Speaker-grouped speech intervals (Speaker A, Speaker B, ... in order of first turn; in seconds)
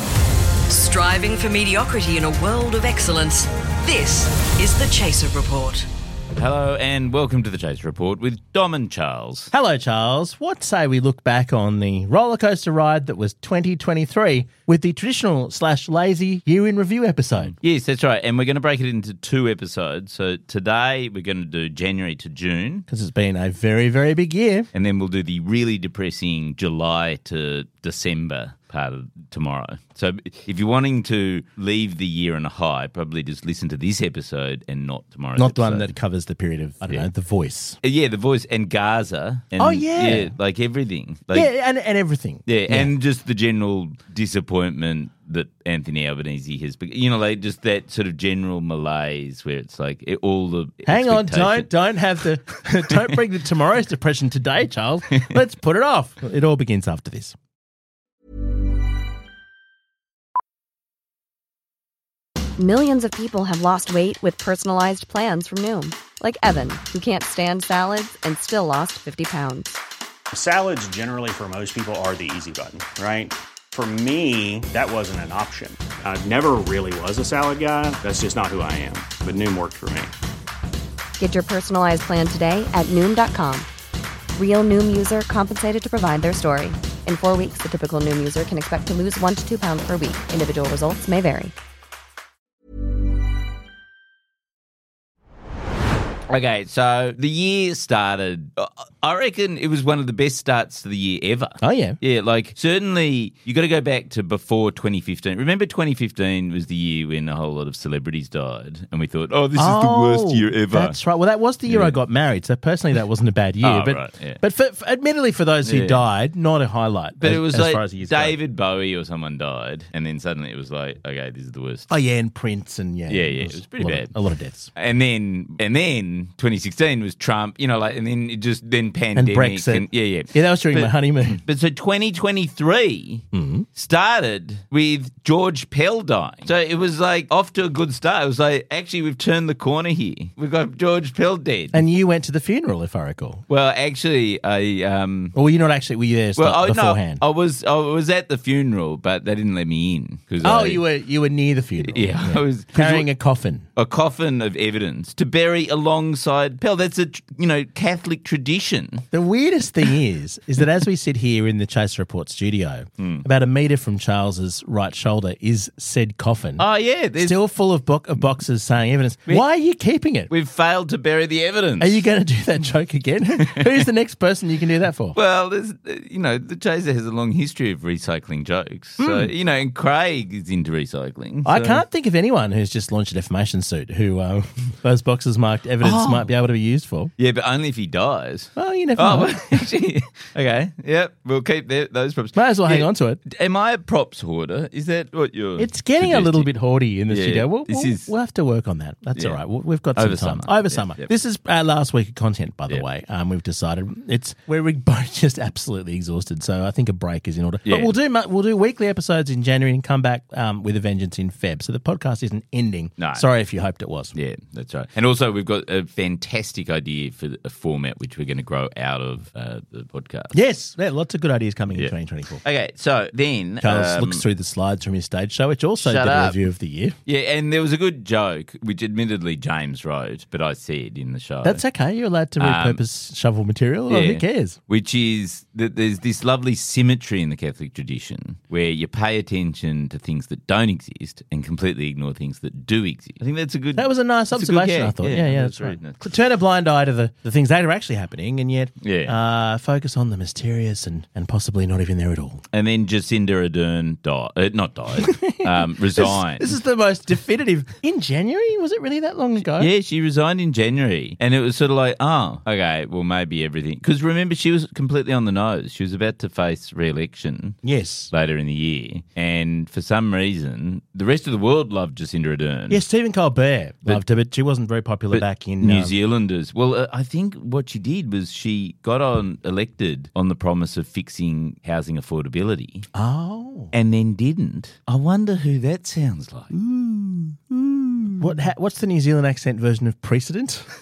Speaker A: 0.7-5.8
Speaker B: 6.3-9.5, 17.6-22.9, 24.7-35.9, 37.8-41.5, 42.5-51.7, 96.3-111.0, 111.7-112.0, 113.6-114.4, 115.6-116.0, 117.2-121.9, 123.1-124.1, 124.8-141.8, 143.5-145.3, 146.4-150.8, 151.8-153.1, 153.8-159.0, 163.0-163.2, 166.6-167.5, 170.3-172.1, 173.4-173.8, 175.2-181.8, 185.8-186.3, 187.2-196.5, 197.1-198.1, 199.9-201.1, 207.7-207.9, 213.0-213.3, 214.2-220.3, 222.4-224.2, 225.8-226.4, 227.1-231.6, 232.4-232.8, 233.9-246.1, 248.8-249.2, 252.5-256.6, 259.4-267.6, 268.1-272.8, 275.1-282.9, 283.7-288.3
Speaker C: 9.5-17.5, 22.9-24.7, 35.4-37.8, 39.6-40.3, 41.3-42.9, 50.9-57.4, 101.6-102.0, 109.5-118.4, 121.9-124.7, 129.1-131.4, 133.3-133.7, 141.7-143.4, 145.3-147.2, 150.4-153.7, 159.1-166.7, 167.2-170.3, 171.8-175.2, 179.0-179.3, 181.4-187.1, 188.6-189.4, 192.3-193.2, 195.6-214.2, 220.3-222.4, 223.6-226.9, 231.4-234.6, 243.8-252.4, 255.0-259.7, 267.6-268.1, 272.7-275.9, 282.9-283.7, 288.2-290.7
Speaker D: 62.6-69.8, 81.2-83.7, 84.3-91.5
Speaker E: 70.3-80.1